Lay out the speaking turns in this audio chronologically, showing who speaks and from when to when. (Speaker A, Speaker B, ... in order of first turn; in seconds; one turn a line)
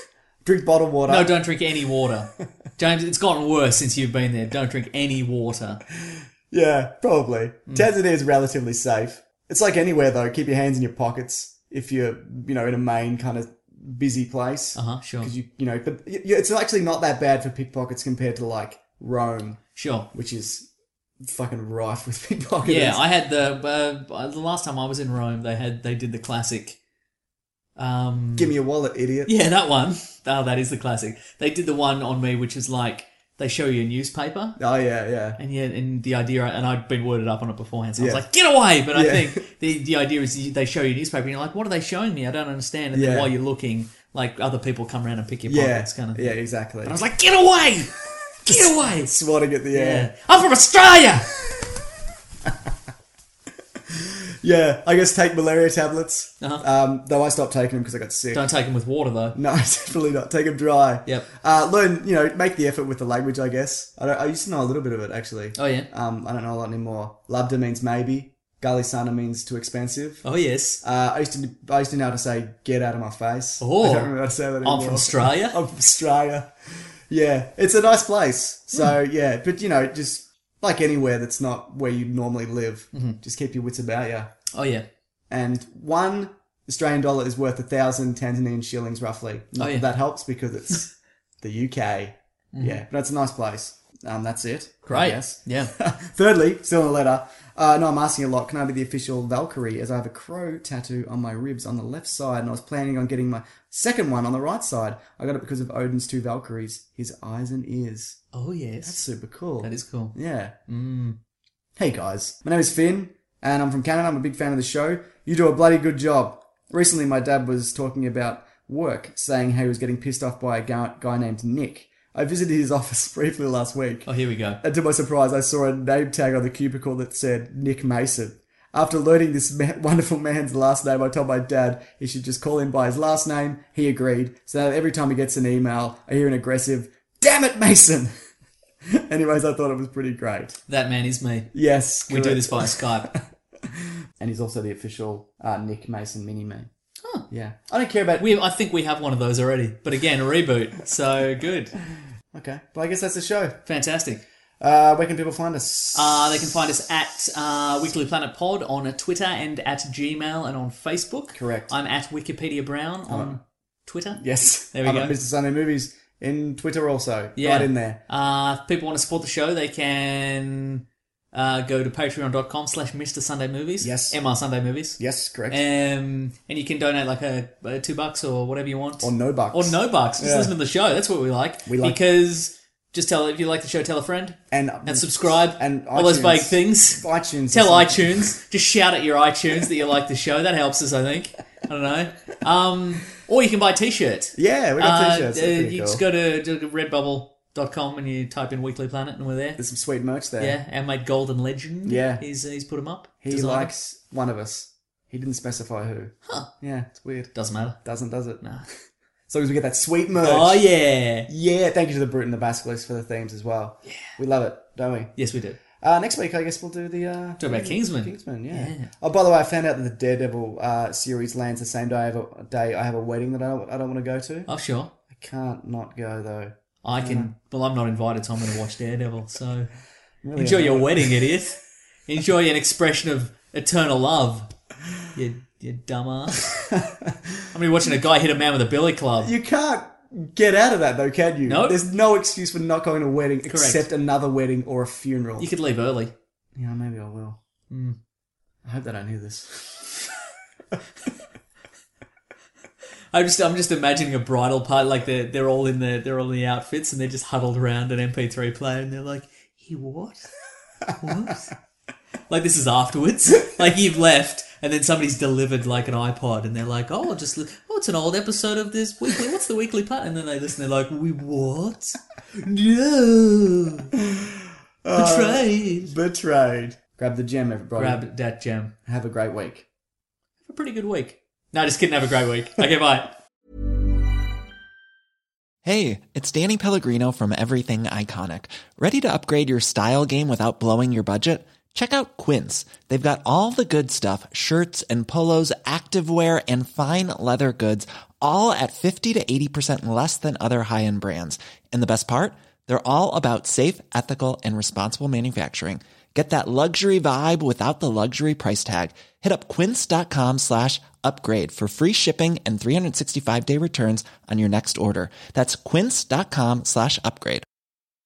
Speaker A: 0.4-1.4
Speaker B: 1.1-5.8
Speaker A: 6.0-19.6
Speaker B: 14.7-15.3
Speaker B: 19.8-20.1
Speaker A: 20.1-20.7
Speaker A: 21.2-23.0
Speaker B: 22.6-26.8
Speaker B: 27.8-28.5
Speaker A: 28.4-29.4
Speaker B: 29.3-34.6
Speaker A: 34.6-35.4
Speaker B: 35.4-47.9
Speaker A: 38.0-38.2
Speaker A: 38.9-39.4
Speaker A: 42.9-43.3
Speaker A: 45.5-47.0
Speaker B: 48.5-49.1
Speaker A: 48.5-50.1
Speaker B: 49.7-51.3
Speaker A: 53.9-58.5
Speaker B: 58.3-59.4
Speaker A: 59.3-70.2
Speaker B: 65.6-65.9
Speaker B: 70.2-70.8
Speaker A: 70.8-84.3
Speaker B: 73.6-75.6
Speaker B: 84.5-84.9
Speaker A: 85.3-108.2
Speaker B: 89.6-89.9
Speaker B: 92.5-92.8
Speaker B: 94.9-95.7
Speaker B: 108.3-109.0
Speaker A: 108.8-110.5
Speaker B: 109.6-110.2
Speaker B: 110.7-111.2
Speaker A: 111.8-124.1
Speaker B: 124.1-124.6
Speaker A: 124.6-138.1
Speaker A: 138.9-140.6
Speaker B: 140.7-141.5
Speaker A: 141.5-143.7
Speaker B: 142.1-143.1
Speaker A: 144.2-146.7
Speaker A: 147.3-148.3
Speaker B: 148.2-151.7
Speaker A: 152.3-153.6
Speaker B: 153.7-154.2
Speaker A: 154.6-156.7
Speaker B: 155.9-165.2
Speaker A: 161.3-161.7
Speaker A: 163.1-163.4
Speaker A: 164.1-168.0
Speaker B: 167.4-199.6
Speaker A: 173.8-174.2
Speaker A: 175.0-175.6
Speaker A: 179.0-180.6
Speaker A: 181.7-182.0
Speaker A: 184.5-188.3
Speaker A: 194.4-196.0
Speaker A: 199.6-200.6
Speaker B: 200.4-203.7
Speaker A: 201.8-202.2
Speaker A: 203.2-208.4
Speaker B: 207.3-207.8
Speaker B: 208.4-208.7
Speaker A: 209.3-210.7
Speaker B: 210.2-211.3
Speaker A: 211.3-215.1
Speaker B: 213.9-214.1
Speaker B: 215.2-215.6
Speaker A: 215.7-224.5
Speaker B: 217.4-218.9
Speaker B: 224.5-224.9
Speaker A: 225.1-227.3
Speaker B: 226.8-229.7
Speaker A: 230.2-231.3
Speaker B: 230.4-234.5
Speaker B: 235.1-236.5
Speaker A: 236.5-237.2
Speaker B: 237.5-239.3
Speaker A: 239.2-245.5
Speaker B: 241.4-241.8
Speaker B: 243.5-243.9
Speaker B: 245.4-246.1
Speaker A: 246.6-247.4
Speaker B: 247.7-248.0
Speaker A: 248.7-250.1
Speaker B: 253.1-260.3
Speaker B: 261.0-261.5
Speaker B: 262.3-273.9
Speaker A: 274.1-278.0
Speaker B: 274.9-275.9
Speaker B: 277.8-278.7
Speaker A: 278.9-279.7
Speaker B: 280.4-283.1
Speaker C: 285.6-317.4